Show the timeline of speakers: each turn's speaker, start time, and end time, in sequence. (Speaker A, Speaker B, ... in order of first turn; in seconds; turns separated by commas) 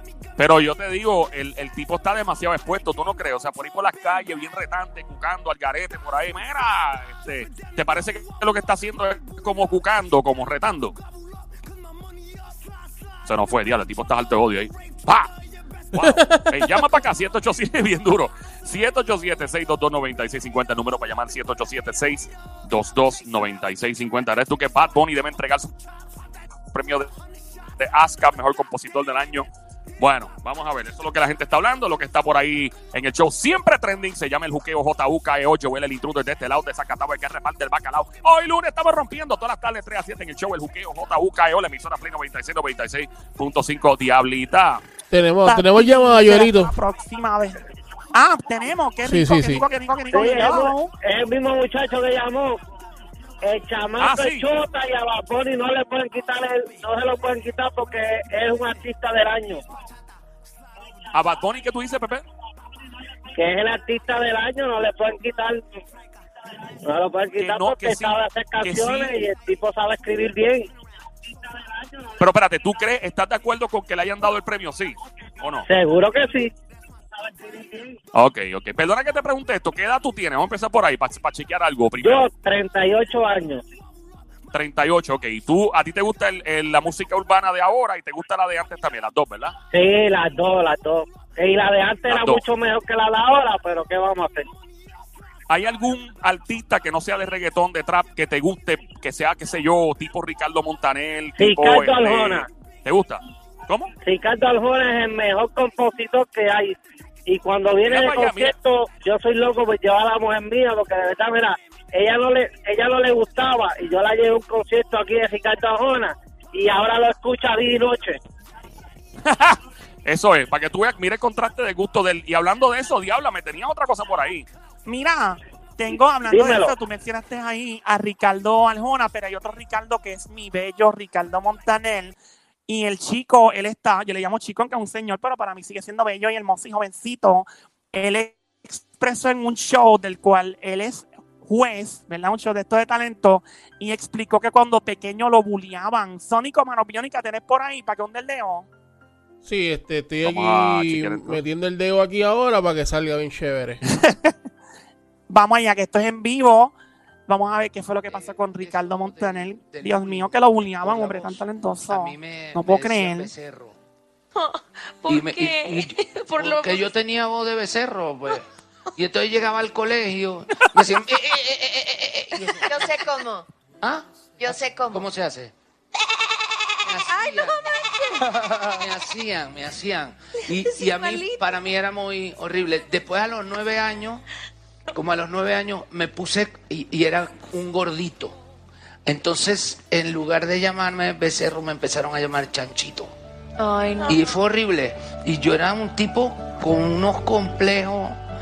Speaker A: 0.4-11.0, Speaker A: 13.2-15.3, Speaker A: 15.9-25.7, Speaker B: 16.0-16.9, Speaker A: 26.7-27.1, Speaker A: 27.8-29.5, Speaker A: 30.0-44.8, Speaker B: 45.1-46.7, Speaker C: 45.5-47.6, Speaker C: 48.1-50.9, Speaker B: 49.1-49.6, Speaker D: 50.1-52.6, Speaker D: 53.4-59.6, Speaker A: 54.0-54.5, Speaker A: 61.1-62.2, Speaker D: 63.4-65.6, Speaker D: 66.8-70.7, Speaker A: 67.4-69.1, Speaker D: 71.3-72.2, Speaker A: 72.2-75.7, Speaker D: 75.7-76.5, Speaker D: 77.1-78.0, Speaker A: 78.1-82.3, Speaker D: 82.0-83.6, Speaker A: 84.5-89.5, Speaker D: 89.7-94.5, Speaker A: 92.1-92.4, Speaker A: 95.5-103.9, Speaker D: 101.4-102.5, Speaker D: 104.0-118.2, Speaker A: 107.8-108.5, Speaker A: 119.2-124.5, Speaker C: 124.9-132.2, Speaker D: 126.3-126.7, Speaker C: 132.7-148.7, Speaker B: 149.4-153.8, Speaker A: 150.2-151.4, Speaker C: 153.9-154.3, Speaker C: 155.3-156.7, Speaker C: 157.3-163.3, Speaker E: 158.0-163.8, Speaker F: 164.3-166.9, Speaker E: 165.1-168.4, Speaker E: 169.0-173.2, Speaker F: 172.3-173.4, Speaker E: 173.8-175.5, Speaker F: 174.4-175.1, Speaker F: 176.7-179.1, Speaker E: 176.8-177.6, Speaker E: 178.3-184.2, Speaker F: 180.4-181.6, Speaker E: 184.9-188.4, Speaker E: 189.1-193.1, Speaker F: 193.6-194.4, Speaker E: 194.0-198.2